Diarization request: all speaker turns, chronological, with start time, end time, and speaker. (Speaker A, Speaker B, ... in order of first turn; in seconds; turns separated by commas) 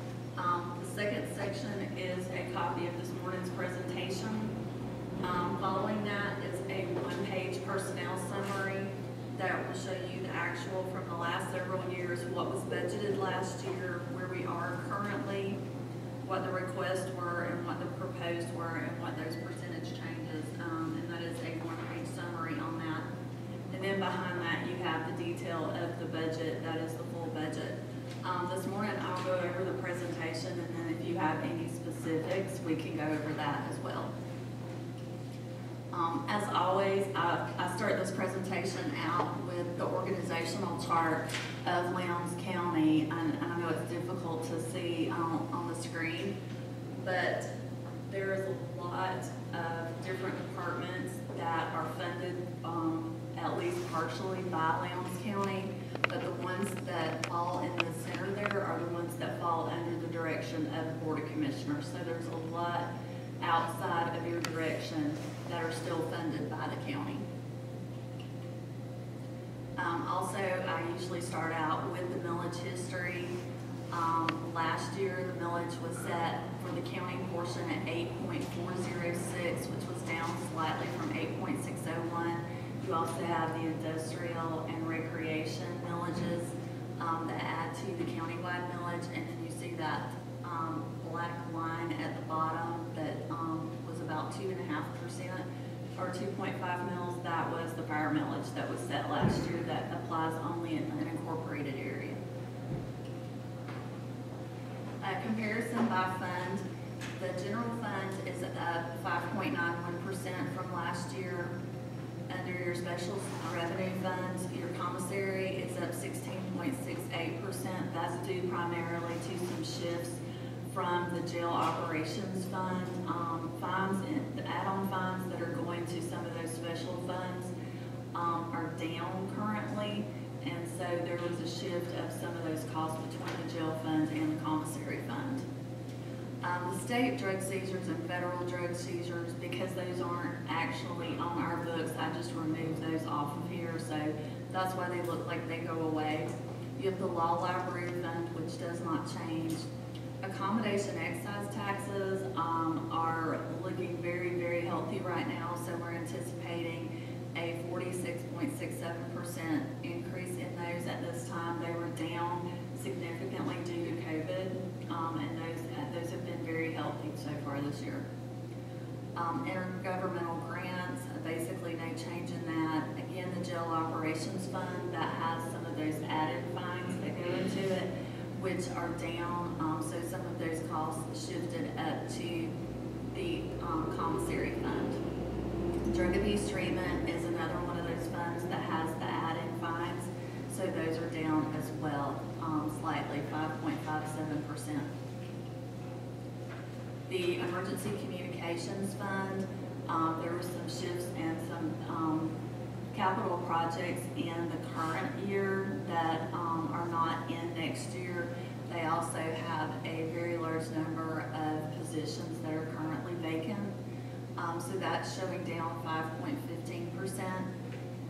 Speaker A: 0.4-4.5, Speaker A: 5.2-15.6, Speaker A: 16.2-23.1, Speaker A: 23.7-34.1, Speaker A: 35.9-46.3, Speaker A: 47.0-47.5, Speaker A: 48.1-62.9, Speaker A: 63.4-67.2, Speaker A: 69.8-73.4, Speaker A: 73.9-95.4, Speaker A: 96.0-102.2, Speaker A: 105.0-106.6, Speaker A: 107.2-111.5, Speaker A: 112.3-120.2, Speaker A: 120.7-127.5, Speaker A: 128.1-135.4, Speaker A: 136.4-149.7, Speaker A: 150.2-168.0, Speaker A: 169.2-182.5, Speaker A: 183.1-185.0, Speaker A: 185.9-194.9, Speaker A: 197.1-202.3, Speaker A: 202.9-213.7, Speaker A: 214.4-217.5